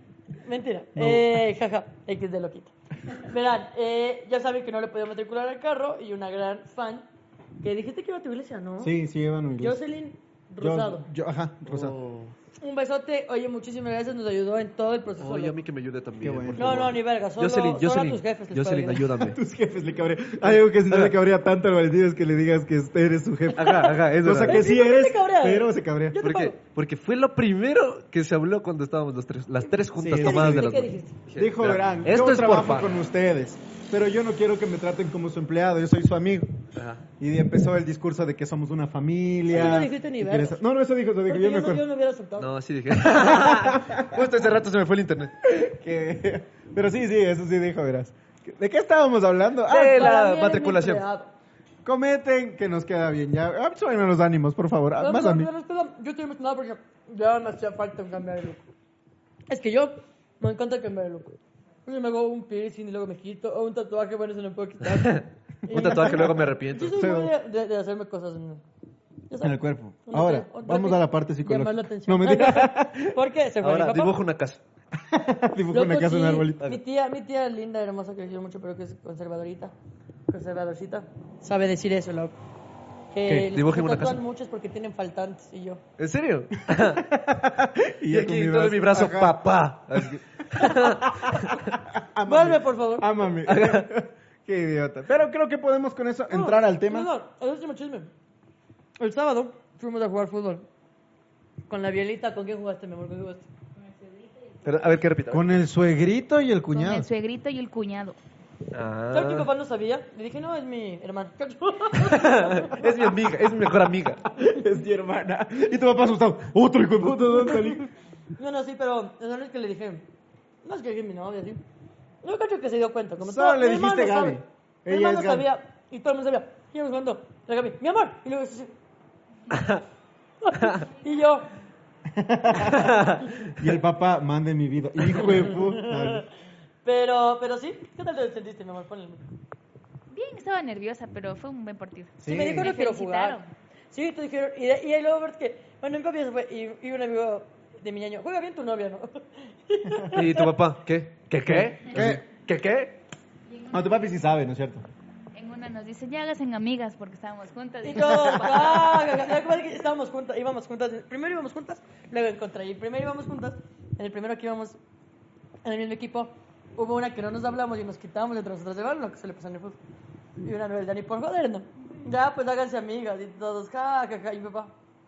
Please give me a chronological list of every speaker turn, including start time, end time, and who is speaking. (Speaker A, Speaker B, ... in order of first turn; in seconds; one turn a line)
Speaker A: 0.4-7.0
Speaker B: 1.0-1.4
Speaker A: 7.6-8.9
Speaker B: 8.8-9.8
Speaker A: 9.6-11.1
Speaker B: 10.6-11.9
Speaker C: 11.7-12.3
Speaker A: 12.6-15.6
Speaker C: 15.2-19.4
Speaker B: 16.2-16.9
Speaker A: 16.6-19.1
Speaker B: 19.2-26.2
Speaker C: 20.5-21.2
Speaker C: 23.5-24.7
Speaker A: 23.6-23.9
Speaker A: 24.4-26.6
Speaker C: 26.2-33.0
Speaker B: 30.0-36.5
Speaker A: 30.1-31.2
Speaker C: 36.8-37.0
Speaker B: 37.2-41.8
Speaker A: 39.5-40.6
Speaker A: 41.3-42.5
Speaker C: 42.4-45.3
Speaker B: 43.1-44.2
Speaker B: 45.4-50.1
Speaker C: 49.7-51.0
Speaker A: 49.7-51.3
Speaker B: 51.9-55.5
Speaker A: 55.0-58.6
Speaker A: 59.5-68.6
Speaker C: 64.9-67.0
Speaker B: 65.7-66.3
Speaker B: 66.9-67.3
Speaker A: 69.3-74.2
Speaker B: 69.4-73.2
Speaker C: 73.6-74.6
Speaker B: 75.0-76.7
Speaker A: 75.7-79.7
Speaker A: 80.3-82.3
Speaker A: 83.1-85.8
Speaker C: 83.3-84.2
Speaker C: 86.0-87.1
Speaker B: 86.7-90.1
Speaker C: 88.1-91.5
Speaker B: 90.6-97.1
Speaker A: 92.3-93.1
Speaker C: 93.5-93.9
Speaker A: 96.3-98.1
Speaker A: 99.0-100.7
Speaker A: 101.7-103.5
Speaker D: 103.8-104.9
Speaker C: 104.6-105.6
Speaker B: 105.3-107.1
Speaker D: 106.7-108.2
Speaker C: 108.7-109.5
Speaker A: 109.1-112.7
Speaker C: 112.0-114.3
Speaker B: 114.4-117.9
Speaker A: 118.4-120.1
Speaker A: 120.6-121.6
Speaker A: 122.2-128.7
Speaker B: 123.2-125.5
Speaker A: 130.4-131.5
Speaker B: 132.1-136.2
Speaker C: 132.7-133.3
Speaker A: 135.4-136.2
Speaker A: 136.8-139.2
Speaker D: 140.1-143.5
Speaker B: 142.2-142.7
Speaker A: 142.2-143.4
Speaker A: 143.9-150.5
Speaker C: 150.1-153.0
Speaker B: 151.5-152.2
Speaker D: 153.5-154.2
Speaker B: 153.7-154.8
Speaker D: 155.3-159.1
Speaker A: 157.8-164.8
Speaker A: 165.7-169.8
Speaker A: 170.4-174.7